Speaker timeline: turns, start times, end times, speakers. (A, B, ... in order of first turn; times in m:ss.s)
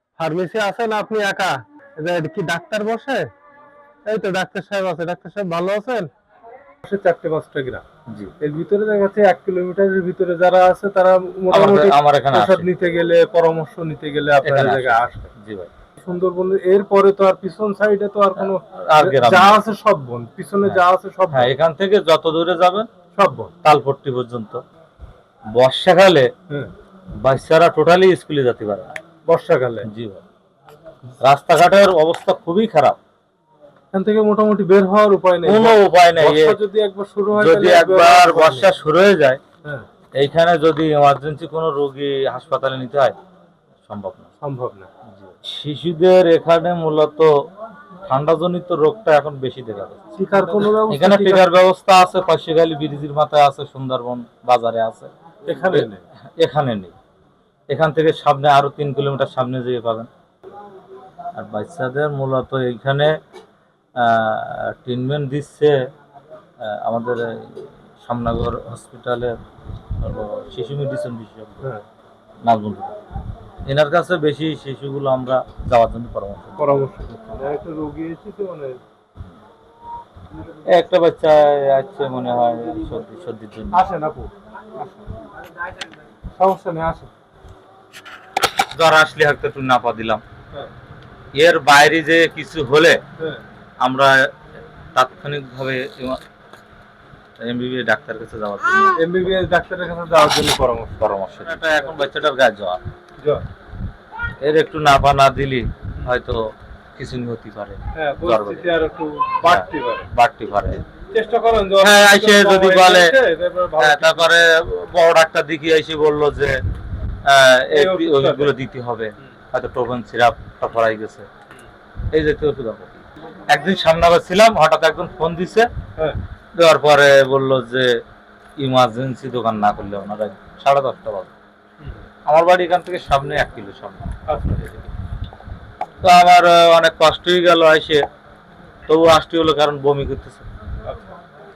0:00.2-0:03.2 A
0:04.1-0:06.1 A
0:06.8-0:07.8 A
0:08.4-0:15.3 A
0:11.5-0:12.7 B
0:14.4-0:15.7 B
0:16.0-0:21.5 A
0:18.4-0:19.6 B
0:20.6-0:22.9 B
0:23.1-0:23.5 A
0:23.6-0:24.6 B
0:25.6-0:26.3 B
0:27.2-0:28.9 B
0:29.3-0:29.9 A
0:29.8-0:30.2 B
0:31.2-0:33.0 B
0:33.9-0:38.7 A
0:35.4-0:36.6 B
0:37.3-0:39.4 B
0:40.2-0:43.2 B
0:43.9-0:44.3 B
0:44.4-0:44.9 A
0:45.1-0:47.3 B
0:48.0-0:50.0 B
0:50.1-0:51.5 A
0:50.6-0:55.1 B
0:55.5-0:56.0 A
0:55.6-0:56.9 B
0:57.7-1:00.1 B
1:01.4-1:03.2 B
1:04.0-1:05.8 B
1:06.6-1:09.3 B
1:10.0-1:11.7 B
1:12.5-1:13.0 B
1:13.7-1:16.8 B
1:16.6-1:18.8 A
1:20.7-1:23.8 B
1:23.7-1:24.3 A
1:26.4-1:27.1 A
1:28.8-1:30.2 B
1:31.4-1:33.0 B
1:33.8-1:34.1 B
1:35.0-1:36.2 B
1:37.4-1:39.0 B
1:39.0-1:41.1 A
1:41.0-1:42.8 B
1:44.4-1:48.7 B
1:48.0-1:50.1 A
1:49.4-1:50.8 B
1:51.1-1:54.5 A
1:51.8-1:53.2 B
1:53.8-1:56.6 B
1:57.2-2:01.3 B
1:57.7-1:58.5 A
2:02.1-2:05.7 B
2:06.6-2:07.9 B
2:08.6-2:11.3 B
2:12.3-2:14.9 B
2:14.3-2:14.7 A
2:16.0-2:18.0 B
2:18.9-2:20.5 B